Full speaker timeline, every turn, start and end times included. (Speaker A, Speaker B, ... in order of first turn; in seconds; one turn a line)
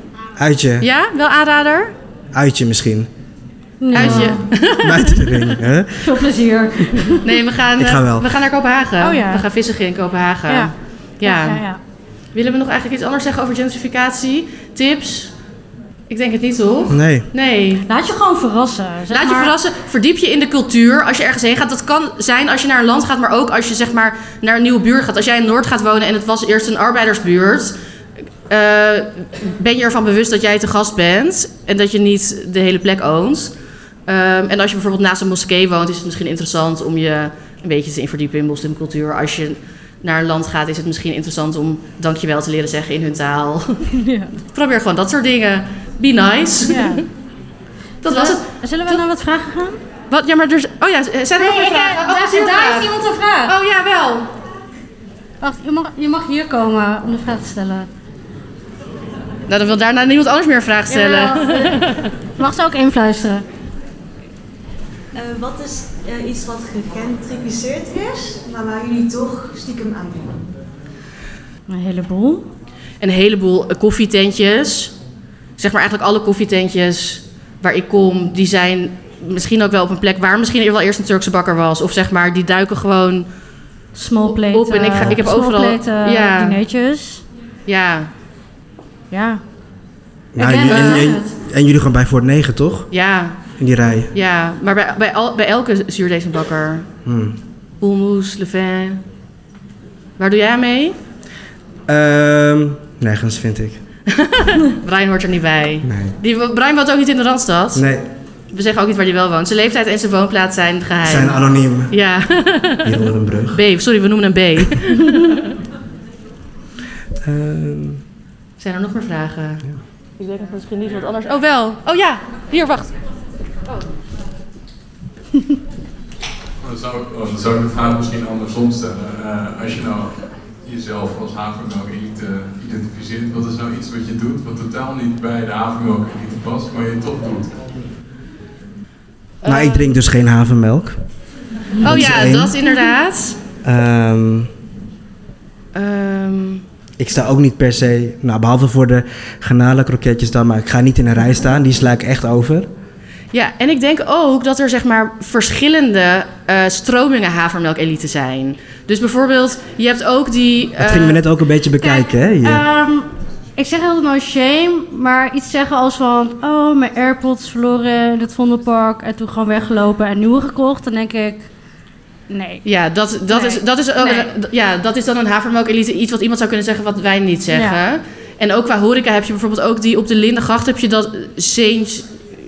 Speaker A: 0.4-0.9
Speaker B: 0.8-1.9
Speaker A: 2.3-3.1
Speaker C: 3.8-4.5
Speaker B: 3.9-5.5
Speaker A: 4.0-6.2
Speaker C: 6.0-7.4
Speaker B: 7.2-11.6
Speaker A: 7.8-8.3
Speaker C: 9.0-9.4
Speaker C: 11.2-11.8
Speaker B: 12.3-15.3
Speaker B: 16.1-17.9
Speaker A: 16.9-17.3
Speaker C: 17.9-19.5
Speaker B: 19.1-27.8
Speaker B: 28.5-33.5
Speaker B: 34.1-43.9
Speaker C: 43.9-44.3
Speaker B: 44.5-47.0
Speaker C: 46.7-47.0
Speaker B: 48.0-49.0
Speaker C: 48.0-49.8
Speaker B: 50.1-52.9
Speaker C: 51.4-53.6
Speaker B: 53.5-54.3
Speaker C: 55.4-57.9
Speaker B: 59.5-62.1
Speaker C: 60.9-61.9
Speaker C: 62.4-63.4
Speaker D: 65.1-70.5
Speaker C: 71.7-72.5
Speaker B: 73.0-75.0
Speaker B: 75.6-83.3
Speaker C: 83.9-87.2
Speaker B: 84.3-86.6
Speaker B: 87.7-88.1
Speaker C: 89.1-89.4
Speaker A: 90.3-92.9
Speaker C: 90.4-91.3
Speaker B: 90.7-91.1
Speaker B: 92.9-93.4
Speaker A: 93.6-94.1
Speaker B: 94.1-96.9
Speaker A: 97.0-97.4
Speaker B: 97.8-99.0
Speaker B: 100.2-101.0
Speaker A: 101.9-103.8
Speaker B: 104.1-107.8
Speaker A: 105.8-106.2
Speaker A: 107.8-108.1
Speaker B: 108.5-112.9
Speaker A: 111.0-111.9
Speaker A: 112.8-113.6
Speaker B: 113.5-115.5
Speaker A: 117.2-118.0
Speaker B: 118.6-119.6
Speaker B: 120.2-123.0
Speaker E: 126.6-137.6
Speaker B: 139.4-139.9
Speaker A: 139.5-141.0
Speaker B: 141.8-143.4
Speaker A: 141.8-142.6
Speaker A: 143.6-144.5
Speaker B: 145.8-146.6
Speaker A: 147.0-152.7
Speaker B: 153.3-161.2
Speaker A: 160.8-162.6
Speaker C: 161.8-171.4
Speaker C: 172.3-172.6
Speaker B: 172.7-182.1
Speaker C: 173.3-174.3
Speaker C: 177.5-177.8